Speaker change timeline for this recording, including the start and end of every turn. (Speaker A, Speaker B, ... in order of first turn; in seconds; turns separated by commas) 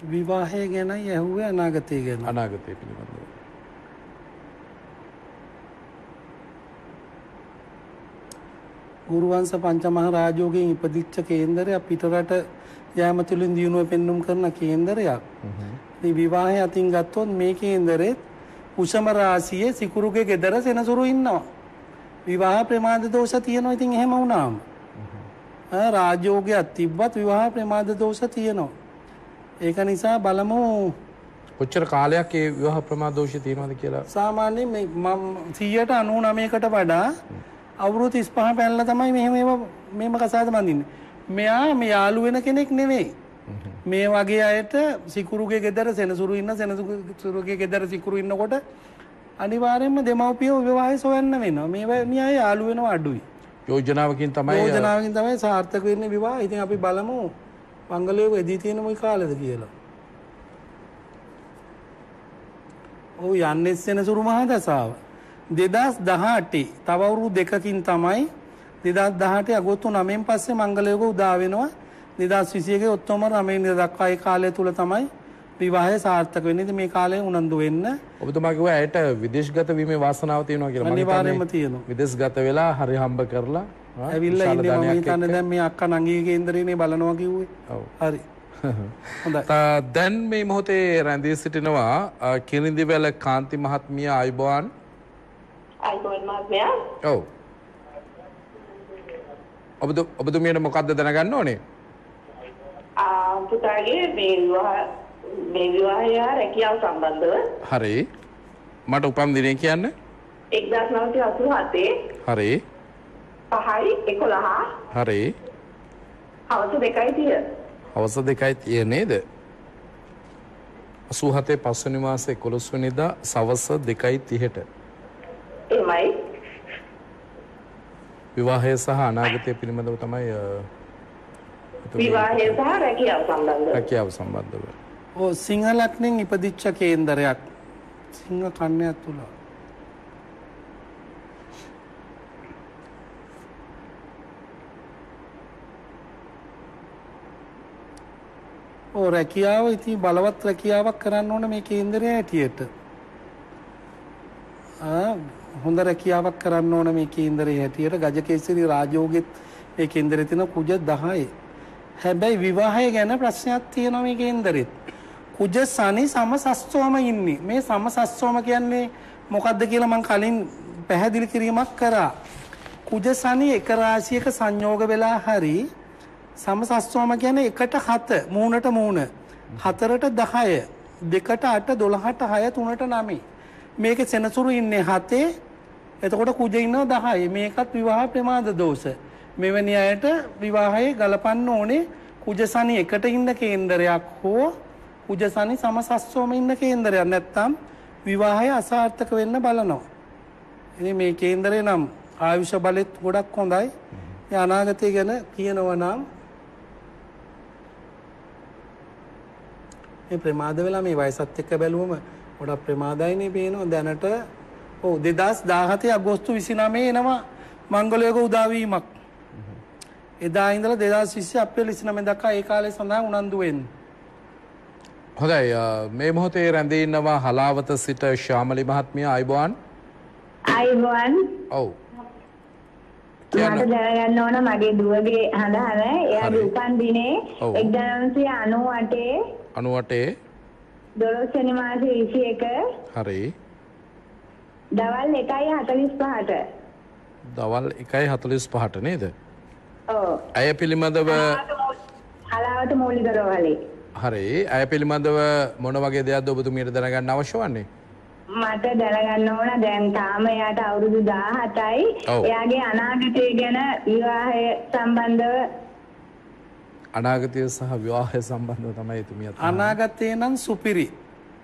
Speaker A: 0.1-2.3, Speaker B: 2.2-3.3, Speaker A: 9.1-12.4, Speaker A: 13.0-15.2, Speaker B: 15.4-15.8, Speaker A: 16.0-18.2, Speaker A: 18.8-21.5, Speaker A: 22.3-24.6, Speaker B: 25.0-25.3, Speaker A: 25.7-28.7, Speaker A: 29.6-31.0, Speaker B: 31.6-34.1, Speaker A: 34.1-37.2, Speaker A: 37.8-43.1, Speaker B: 43.5-43.8, Speaker A: 43.9-48.6, Speaker A: 49.4-53.2, Speaker B: 53.7-54.9, Speaker A: 54.5-57.3, Speaker A: 57.9-59.7, Speaker A: 63.2-65.0, Speaker A: 65.5-68.3, Speaker A: 68.8-75.1, Speaker A: 75.6-78.0, Speaker B: 78.2-85.4, Speaker A: 80.8-81.9, Speaker A: 84.1-88.2, Speaker B: 88.6-94.7, Speaker C: 95.8-96.8, Speaker B: 97.0-97.3, Speaker B: 99.8-101.6, Speaker C: 103.0-107.5, Speaker B: 107.6-108.1, Speaker B: 108.9-109.9, Speaker C: 110.5-111.9, Speaker B: 112.2-112.6, Speaker C: 113.5-114.8, Speaker B: 114.9-115.4, Speaker C: 116.5-117.5, Speaker B: 118.0-119.2, Speaker B: 121.1-124.7, Speaker C: 125.7-126.2, Speaker B: 128.3-130.7, Speaker B: 131.8-132.6, Speaker C: 132.0-133.8, Speaker B: 133.7-134.8, Speaker A: 135.2-137.4, Speaker A: 138.1-139.3, Speaker A: 148.9-152.7, Speaker A: 154.8-161.3, Speaker A: 162.0-164.8, Speaker A: 165.3-172.1, Speaker A: 172.9-175.7, Speaker A: 176.4-183.2, Speaker A: 183.8-185.3, Speaker A: 186.0-194.6, Speaker A: 195.1-199.9, Speaker A: 200.8-203.7, Speaker B: 203.9-204.2, Speaker A: 204.3-206.1, Speaker A: 210.1-214.2, Speaker A: 214.8-218.9, Speaker A: 220.2-223.7, Speaker B: 225.2-229.6, Speaker D: 230.5-231.2, Speaker B: 231.5-231.8, Speaker D: 233.3-239.1, Speaker B: 233.4-233.7, Speaker B: 236.2-236.5, Speaker B: 237.4-237.7, Speaker B: 239.6-240.1, Speaker D: 241.0-242.6, Speaker B: 242.9-243.3, Speaker D: 244.8-246.4, Speaker B: 247.3-249.1, Speaker D: 249.9-250.2, Speaker B: 250.3-251.4, Speaker D: 251.1-251.8, Speaker D: 252.3-253.6, Speaker B: 254.0-257.7, Speaker D: 258.4-265.4, Speaker B: 266.9-269.8, Speaker A: 269.4-270.9